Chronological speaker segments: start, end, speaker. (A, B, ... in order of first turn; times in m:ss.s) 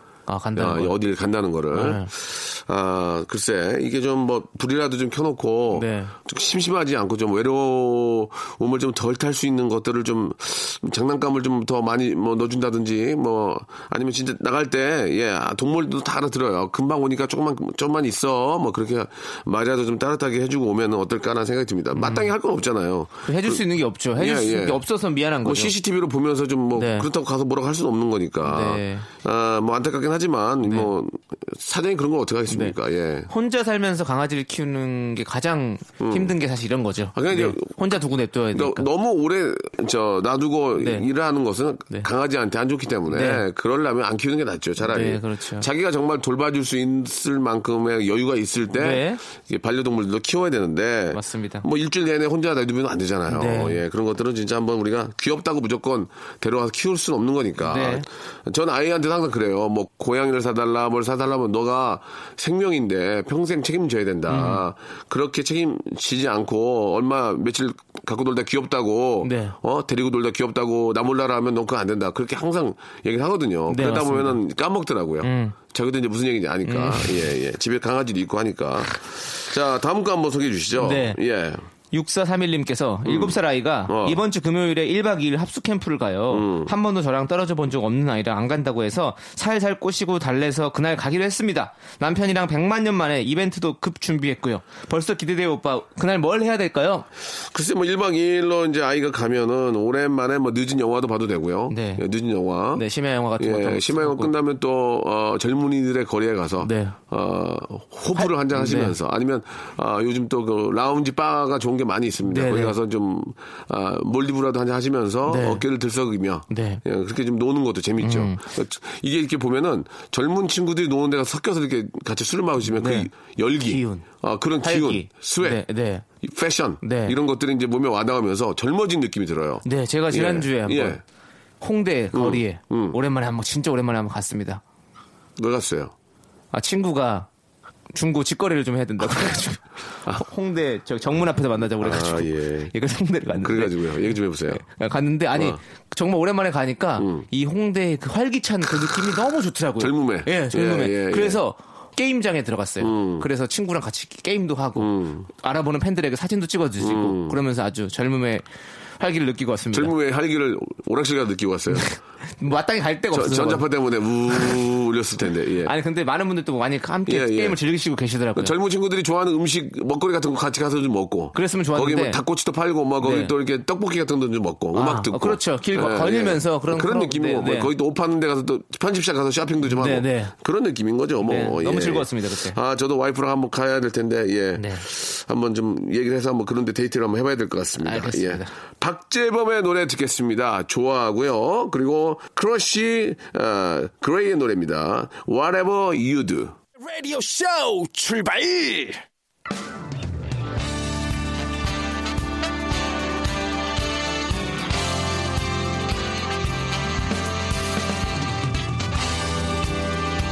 0:00.3-0:00.9 A
0:00.6-0:23.6 B
0:01.7-0:02.1 A
0:05.7-0:06.2 A
0:22.0-0:22.3 A
0:23.2-0:25.7 A
0:24.2-0:24.8 B
0:25.4-0:33.3 B
0:26.7-0:27.1 A
0:28.4-0:29.1 A
0:30.6-0:30.9 A
0:32.5-0:32.8 A
0:33.3-0:38.9 A
0:36.0-0:36.3 B
0:37.1-0:37.8 B
0:38.5-1:21.6 B
0:40.8-0:41.0 A
0:43.1-0:43.4 A
0:44.8-0:45.7 A
0:48.8-0:49.2 A
0:51.1-0:51.6 A
0:53.3-0:53.8 A
0:57.6-0:58.0 A
1:04.3-1:04.6 A
1:09.2-1:09.6 A
1:13.7-1:14.4 A
1:15.2-1:15.6 A
1:16.6-1:17.3 A
1:20.8-1:21.2 A
1:21.9-1:37.0 A
1:23.0-1:23.4 B
1:23.9-1:24.2 B
1:26.3-1:26.7 B
1:37.3-1:42.8 B
1:41.7-1:42.0 A
1:42.7-1:44.3 A
1:43.4-2:05.6 B
1:46.6-1:47.0 A
1:48.1-1:49.0 A
1:52.2-1:52.8 A
1:55.2-1:55.6 A
1:56.5-1:56.8 A
1:58.0-1:58.4 A
2:02.7-2:03.1 A
2:03.7-2:04.0 A
2:04.6-2:06.0 A
2:06.2-2:11.0 B
2:06.8-2:07.2 A
2:09.6-2:11.0 A
2:11.6-2:14.6 A
2:12.1-2:13.0 B
2:15.4-2:15.9 B
2:16.5-2:17.3 A
2:17.9-2:23.9 A
2:21.8-2:22.7 B
2:23.4-2:24.6 B
2:24.5-2:38.4 A
2:27.0-2:27.2 B
2:29.8-2:31.4 B
2:32.8-2:33.3 B
2:34.8-2:35.3 B
2:36.8-2:37.4 B
2:39.0-2:39.9 A
2:39.7-2:41.9 B
2:41.7-2:43.6 A
2:43.1-2:45.7 B
2:44.3-2:44.6 A
2:45.6-2:48.5 A
2:47.1-2:47.6 B
2:48.3-3:16.6 B
2:51.3-2:52.2 A
2:53.0-2:53.3 A
2:54.7-2:57.7 A
2:59.6-3:00.3 A
3:01.2-3:02.6 A
3:04.6-3:04.8 A
3:07.8-3:08.5 A
3:16.8-3:19.0 C